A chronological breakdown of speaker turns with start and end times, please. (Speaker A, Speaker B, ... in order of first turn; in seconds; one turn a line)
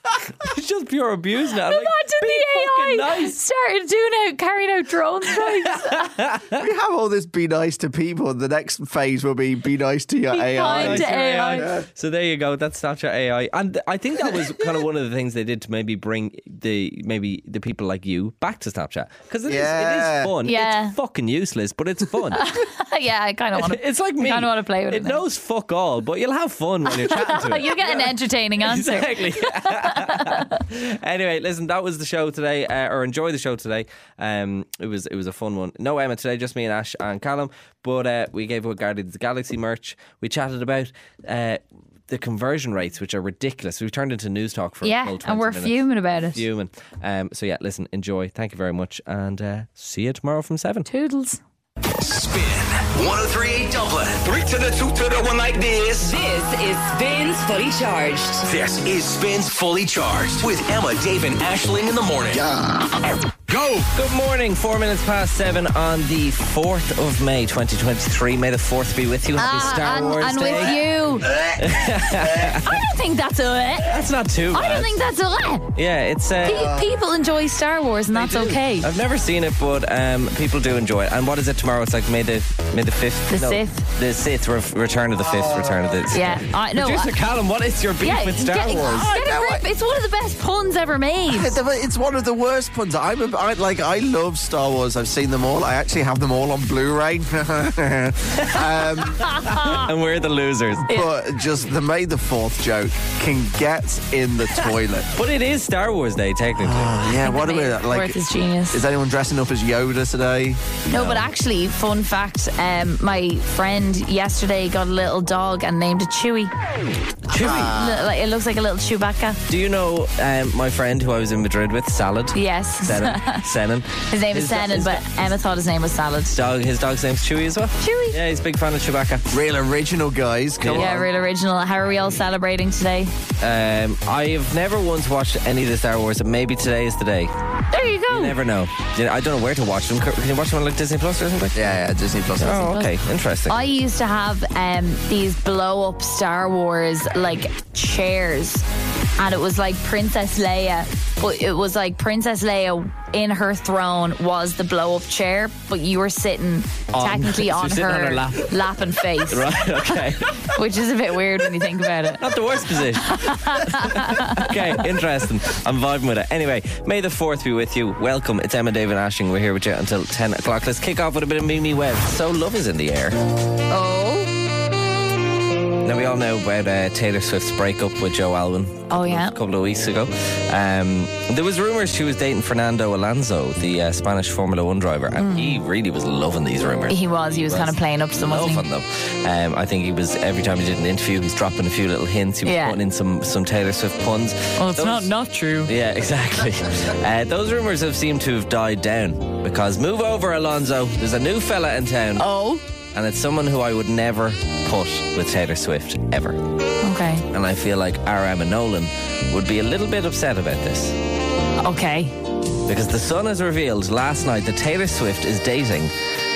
Speaker A: 0.2-3.4
Speaker B: 1.6-6.1
Speaker A: 5.4-6.6
Speaker C: 6.6-11.8
Speaker B: 10.3-11.7
Speaker A: 10.6-22.4
Speaker C: 19.4-20.3
Speaker B: 20.4-20.9
Speaker B: 22.3-25.2
Speaker A: 23.6-50.9
Speaker B: 26.9-30.6
Speaker B: 44.8-46.4
Speaker B: 50.9-51.4
Speaker D: 51.9-56.1
Speaker E: 56.0-58.5
Speaker D: 58.4-62.5
Speaker D: 63.5-63.9
Speaker A: 63.9-70.8
Speaker B: 69.4-71.3
Speaker A: 71.6-72.8
Speaker B: 72.6-74.0
Speaker A: 73.8-74.9
Speaker B: 74.5-75.7
Speaker A: 75.7-76.8
Speaker B: 76.4-78.9
Speaker C: 76.5-76.8
Speaker A: 78.1-89.5
Speaker B: 83.3-83.8
Speaker C: 85.2-86.0
Speaker B: 86.1-87.1
Speaker B: 88.0-91.5
Speaker C: 89.1-89.6
Speaker C: 91.3-99.3
Speaker A: 98.4-100.9
Speaker B: 99.2-99.8
Speaker C: 100.9-105.1
Speaker A: 104.5-107.1
Speaker C: 106.6-110.6
Speaker B: 107.1-108.8
Speaker B: 110.9-116.5
Speaker A: 110.9-111.2
Speaker A: 117.3-117.7
Speaker C: 117.3-118.1
Speaker B: 117.4-119.4
Speaker A: 119.5-125.0
Speaker B: 122.3-123.4
Speaker B: 124.1-126.3
Speaker A: 126.3-129.3
Speaker B: 127.8-128.2
Speaker C: 129.3-131.1
Speaker A: 130.6-131.0
Speaker B: 130.7-133.1
Speaker A: 133.4-137.3
Speaker B: 137.7-138.3
Speaker A: 138.1-141.6
Speaker C: 141.5-142.7
Speaker A: 142.4-143.6
Speaker B: 142.4-142.9
Speaker B: 143.5-148.6
Speaker B: 149.2-162.2
Speaker A: 156.9-160.5
Speaker A: 162.1-173.2
Speaker B: 163.0-164.6
Speaker B: 173.7-174.3
Speaker A: 175.8-195.1
Speaker B: 178.9-179.3
Speaker B: 185.2-185.6
Speaker B: 186.9-188.7
Speaker B: 192.4-192.8
Speaker B: 194.6-195.7
Speaker A: 195.7-202.3
Speaker B: 202.2-202.6
Speaker A: 202.9-206.4
Speaker B: 206.8-207.2
Speaker A: 207.3-210.9
Speaker B: 211.6-212.1
Speaker A: 212.7-215.9